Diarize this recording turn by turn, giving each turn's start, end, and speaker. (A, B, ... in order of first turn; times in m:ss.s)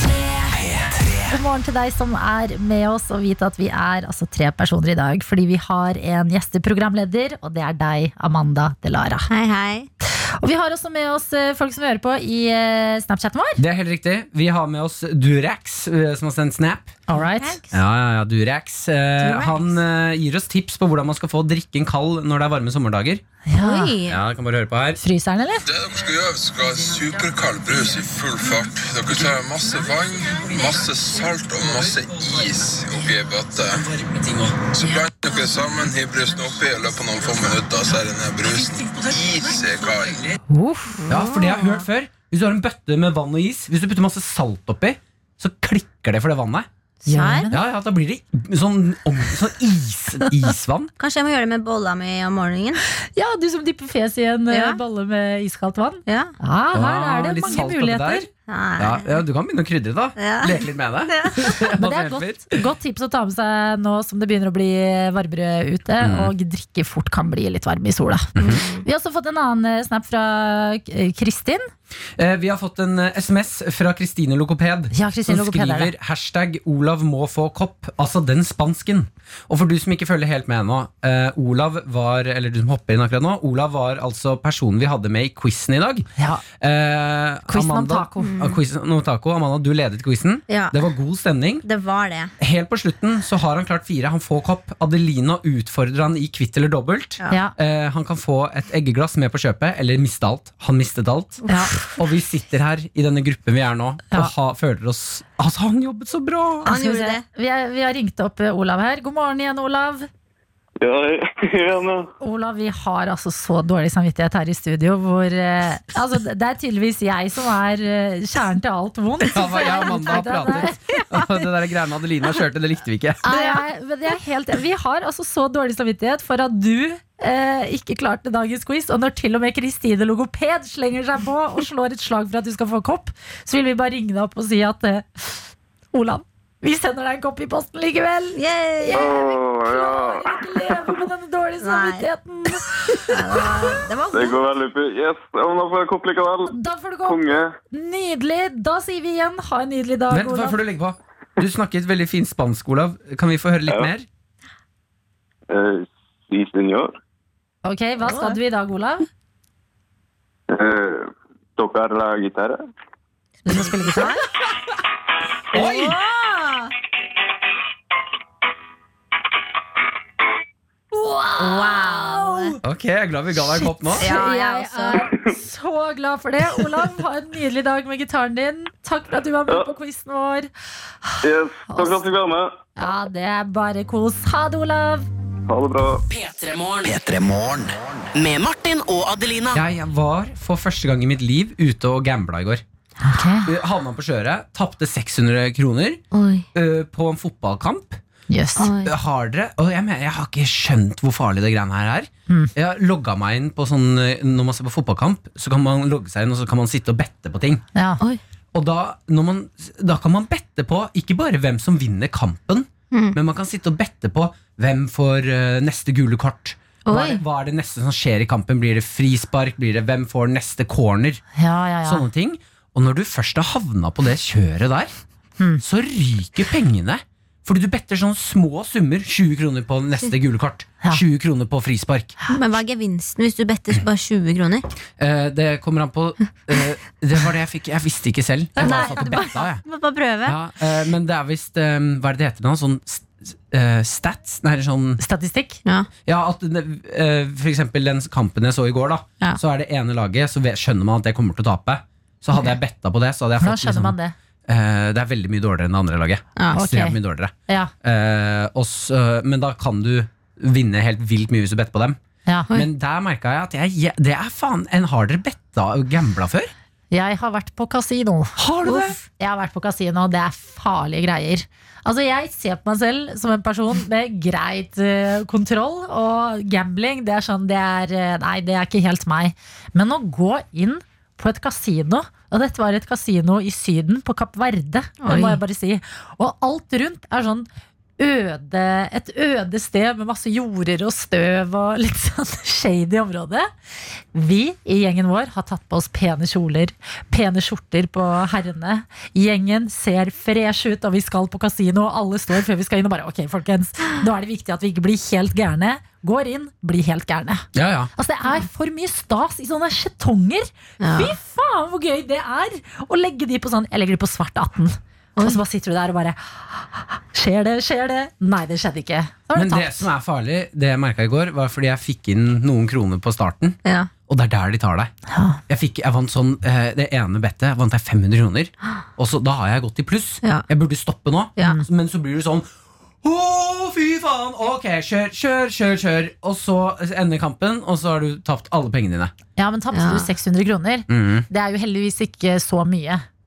0:00.5-0:01.3 A
0:01.3-0:09.3 B
0:09.3-0:09.9 C
0:10.4-0:13.6 B
0:13.6-0:16.9 D
0:17.1-0:17.6 B
0:17.2-0:17.8 C
0:17.7-0:23.2 D
0:19.2-0:19.8 C
0:23.5-0:23.9 B
0:23.6-0:24.2 C
0:24.0-0:25.0 D
0:25.0-0:25.7 B
0:25.6-0:33.9 E
0:33.9-0:34.6 D
0:34.6-0:40.3 E
0:40.5-0:41.0 B
0:41.0-0:41.8 C
0:41.1-0:46.7 D
0:47.0-0:47.5 C
0:47.0-0:47.6 B
0:47.5-0:50.9 D
0:51.0-0:52.8 C
0:53.1-0:58.3 B
0:54.5-0:54.8 C
0:56.1-0:56.3 C
0:56.7-1:02.5 D
0:58.5-0:59.2 C
1:00.2-1:01.6 C
1:01.8-1:11.7 B
1:06.0-1:06.3 D
1:08.4-1:08.6 D
1:08.4-1:08.9 C
1:12.2-1:31.6 D
1:14.9-1:15.9 B
1:26.2-1:26.4 B
1:27.5-1:28.4 B
1:28.2-1:28.6 C
1:30.5-1:30.8 C
1:31.6-1:32.3 C
1:32.4-1:46.7 D
1:41.4-1:41.9 C
1:41.5-1:41.8 B
1:46.6-1:47.2 C
1:46.6-1:50.1 B
1:50.8-1:52.1 F
1:52.2-2:00.7 B
1:59.3-2:03.2 D
2:03.2-2:23.5 B
2:03.3-2:03.6 C
2:18.4-2:19.1 C
2:18.9-2:20.3 F
2:21.6-2:22.1 C
2:22.9-2:24.4 C
2:24.1-2:26.5 F
2:26.5-2:30.6 B
2:27.0-2:27.5 F
2:30.1-2:34.0 D
2:35.5-2:37.0 F
2:37.6-2:39.0 B
2:38.0-2:38.4 C
2:40.5-2:42.6 F
2:43.4-2:44.2 B
2:43.4-2:44.2 C
2:45.5-2:46.0 D
2:45.5-2:46.7 C
2:50.9-2:52.6 B
2:51.4-2:52.6 C
2:52.6-2:54.0 D
2:53.3-3:00.5 B
2:54.0-2:55.0 C
3:01.0-3:02.0 B
3:01.2-3:02.6 F
3:02.8-3:05.1 B
3:05.5-3:06.0 F
3:06.1-3:06.9 G
3:06.8-3:08.1 A
3:08.1-3:09.6 G
3:09.5-3:12.6 D
3:13.0-3:13.5 B
3:13.4-3:16.0 D
3:16.1-3:16.4 C
3:16.5-3:18.0 D
3:18.3-3:18.7 B
3:18.6-3:18.9 C
3:18.7-3:27.6 D
3:27.7-3:28.0 B
3:28.5-3:41.2 D
3:36.9-3:37.2 C
3:41.4-3:42.0 B
3:41.8-3:44.9 D
3:45.6-3:52.2 D
3:52.3-3:54.7 C
3:55.0-3:59.6 D
3:58.6-3:59.3 B
3:58.6-4:00.4 C
4:00.2-4:05.0 D
4:05.0-4:05.6 B
4:06.0-4:14.0 D
4:13.4-4:14.1 B
4:14.5-4:22.0 D
4:16.5-4:17.0 B
4:22.5-4:26.5 D
4:26.9-4:28.4 B
4:28.4-4:29.0 D
4:28.6-4:29.0 C
4:29.2-4:47.5 B
4:45.0-4:45.4 C
4:48.0-4:53.5 B
4:54.1-5:19.9 B
5:07.5-5:07.9 D
5:10.8-5:11.1 C
5:19.3-5:24.9 D
5:23.6-5:23.9 C
5:25.1-5:25.4 B
5:25.5-5:32.5 D
5:33.0-5:39.1 D
5:39.4-5:43.0 B
5:39.7-5:40.1 C
5:40.9-5:41.3 D